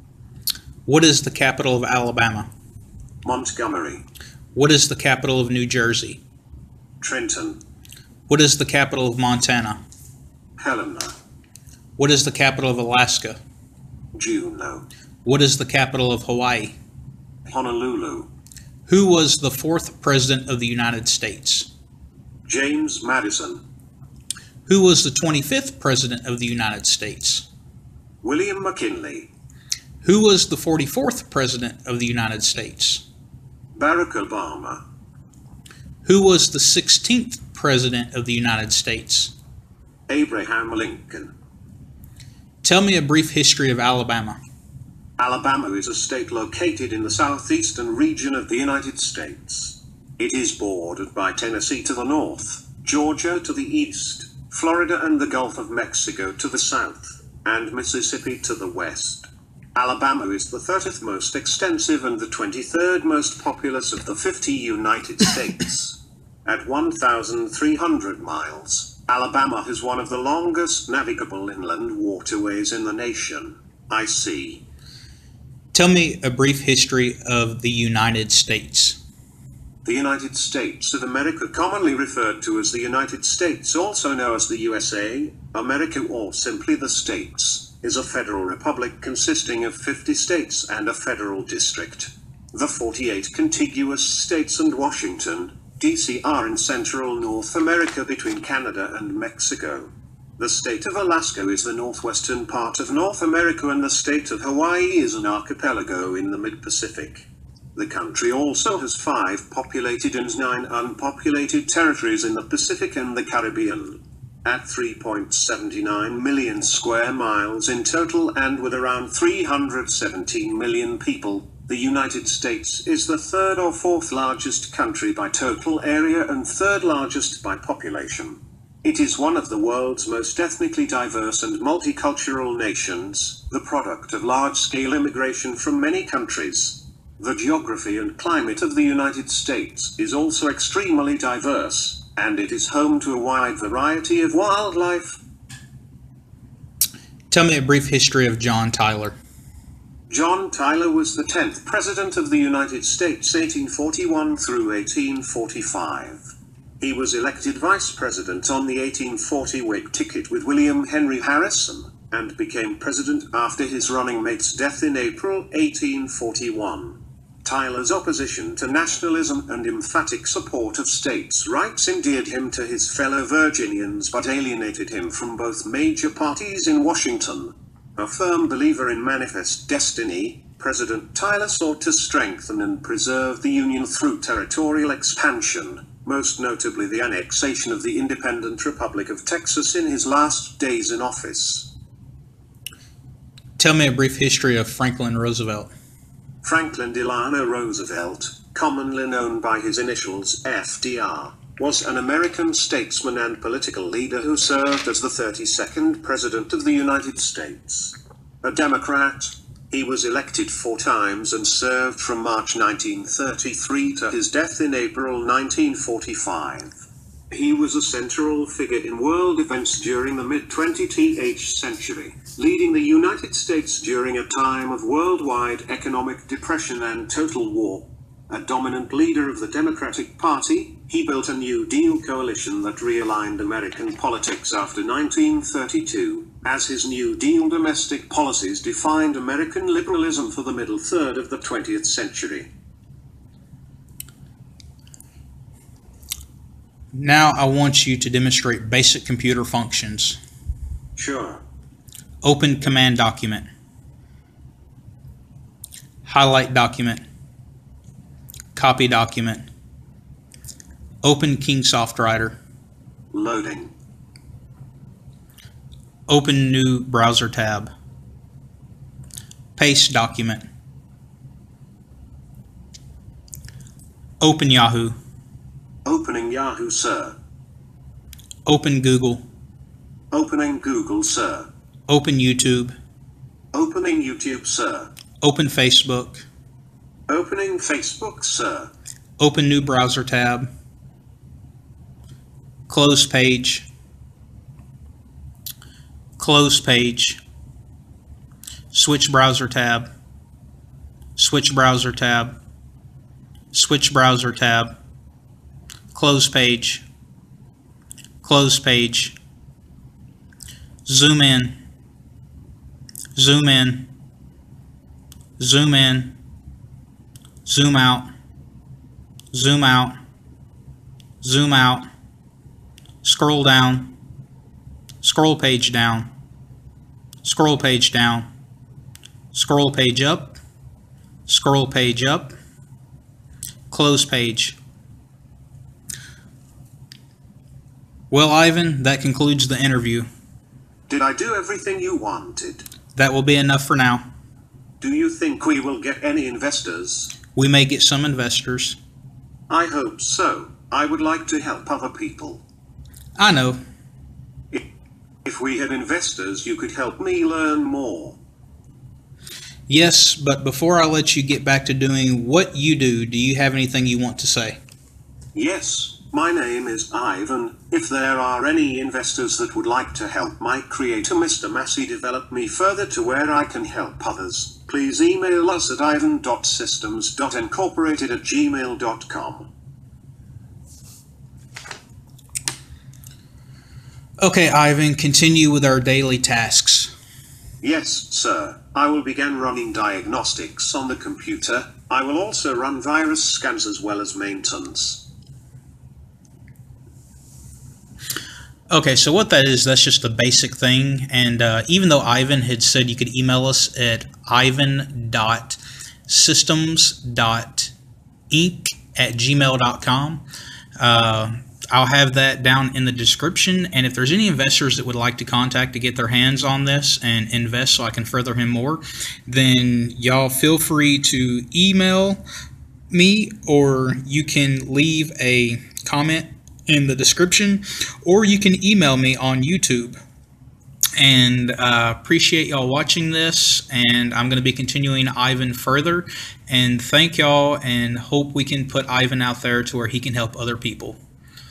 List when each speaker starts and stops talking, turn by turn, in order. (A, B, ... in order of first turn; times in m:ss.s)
0:00.8-0:02.5 A
0:03.2-0:04.0 B
0:04.5-0:06.2 A
0:07.0-0:07.6 B
0:08.3-0:09.8 A
0:10.6-0:11.1 B
0:12.0-0:13.4 A
0:14.1-0:14.8 B
0:15.2-0:16.8 A
0:17.5-0:18.3 B
0:18.9-0:21.7 A
0:22.4-0:23.6 B
0:24.7-0:27.4 A
0:28.2-0:29.3 B
0:30.0-0:33.0 A
0:33.8-0:34.8 B
0:36.0-0:39.3 A
0:40.1-0:41.3 B
0:42.6-0:44.4 A
0:45.2-1:14.6 B
1:15.7-1:19.0 A
1:19.8-2:25.2 B
2:27.3-2:29.2 A
2:30.1-3:11.7 B
3:13.6-3:15.7 A
3:16.4-3:36.8 B
3:37.3-4:02.5 B
4:06.9-4:10.2 A
4:11.0-4:11.4 B
4:12.2-4:13.4 A
4:16.0-4:17.0 A
4:18.5-4:19.4 A
4:21.0-4:22.4 A
4:23.1-4:23.7 B
4:26.1-4:27.7 A
4:29.6-4:30.4 A
4:34.2-4:34.9 A
4:35.8-4:37.2 B
4:38.4-4:39.2 A
4:40.1-4:41.5 B
4:41.9-4:42.8 A
4:43.5-4:44.9 B
4:45.2-4:46.2 A
4:47.1-4:48.7 B
4:49.2-4:50.5 A
4:52.7-4:53.7 A
4:56.2-4:57.2 A
4:58.7-4:59.9 A
5:01.2-5:02.4 A
5:03.5-5:04.7 A
5:05.9-5:06.8 A
5:08.2-5:09.2 A
5:10.8-5:11.6 A
5:13.1-5:13.9 A
5:15.4-5:16.2 A
5:17.4-5:18.1 A
5:19.3-5:19.9 A
5:21.2-5:21.8 A
5:23.0-5:24.0 A
5:25.0-5:26.1 A
5:27.2-5:28.3 A
5:29.3-5:30.4 A
5:31.3-5:32.3 A
5:33.7-5:34.6 A
5:38.1-5:40.1 A
5:40.9-5:42.7 B
5:43.0-5:44.0 A
5:44.8-5:47.1 B
5:47.3-5:48.8 A
5:49.5-5:52.4 B
5:53.2-5:53.6 A
5:55.2-5:58.2 B
5:59.7-6:04.6 A
6:05.3-6:19.5 B
6:24.2-6:26.9 A
6:27.6-6:35.0 B
6:38.7-6:47.7 A
6:48.3-6:50.2 A
6:50.8-7:02.2 A
7:02.9-7:10.0 A
7:11.0-7:21.0 A